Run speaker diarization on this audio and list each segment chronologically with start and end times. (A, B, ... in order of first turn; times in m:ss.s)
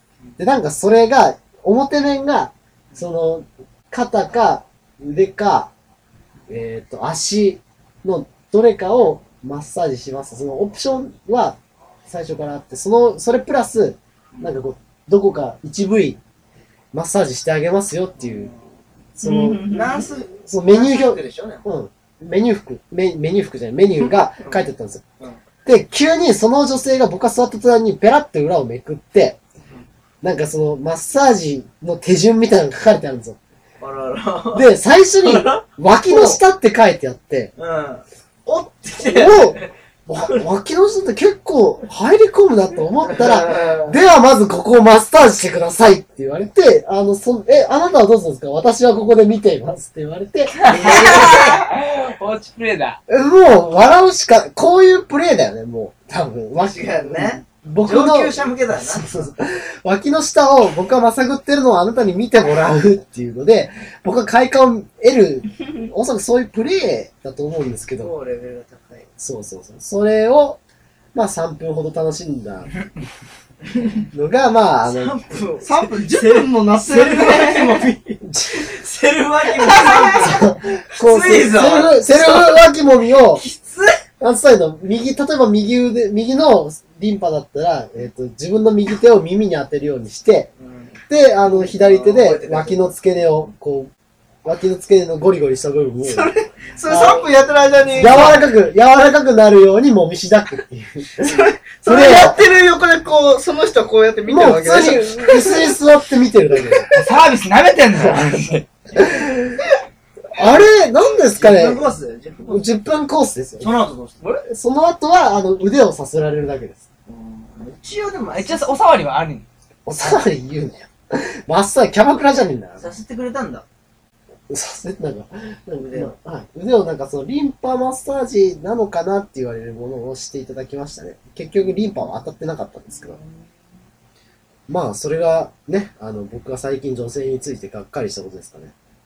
0:00.4-0:05.7 A
0:06.5-0:11.6 A
0:12.1-0:16.2 A
0:14.4-0:14.6 B
0:16.9-0:18.5 A
0:18.2-0:18.6 B
0:19.2-0:19.9 A
0:19.2-0:20.1 C
0:19.7-0:21.6 B
0:20.4-0:25.0 A
0:24.4-0:24.7 B
0:25.6-0:29.4 A
0:30.2-0:33.4 A
0:33.8-0:34.7 B
0:34.5-0:37.5 A
0:35.2-0:36.4 B
0:37.6-0:39.7 B
0:39.0-0:51.2 A
0:43.0-0:44.0 B
0:50.6-0:53.0 D
0:50.6-0:51.6 B
0:53.1-1:08.1 A
0:56.6-0:59.3 B
1:07.9-1:09.1 B
1:09.2-1:10.6 A
1:11.1-1:12.7 A
1:14.1-1:15.2 A
1:14.8-1:24.0 B
1:15.6-1:17.9 C
1:18.2-1:18.7 A
1:19.5-1:20.2 C
1:20.0-1:23.4 A
1:24.2-1:30.5 A
1:30.6-1:32.9 B
1:31.1-1:33.9 A
1:34.4-1:36.3 A
1:36.0-1:38.4 C
1:36.9-1:37.2 A
1:37.8-1:38.4 B
1:37.9-1:41.3 A
1:41.2-1:45.8 C
1:41.8-1:42.4 A
1:44.2-1:46.9 A
1:46.9-1:48.6 D
1:48.0-1:49.6 A
1:50.3-1:51.8 A
1:51.3-1:52.7 B
1:52.5-1:53.8 A
1:53.6-1:54.4 B
1:54.4-1:56.8 A
1:57.1-1:58.8 B
1:58.3-1:59.5 D
1:59.8-2:02.9 A
2:02.8-2:03.6 B
2:04.5-2:13.2 A
2:05.7-2:06.1 B
2:11.6-2:12.1 B
2:12.9-2:13.4 B
2:14.7-2:18.7 A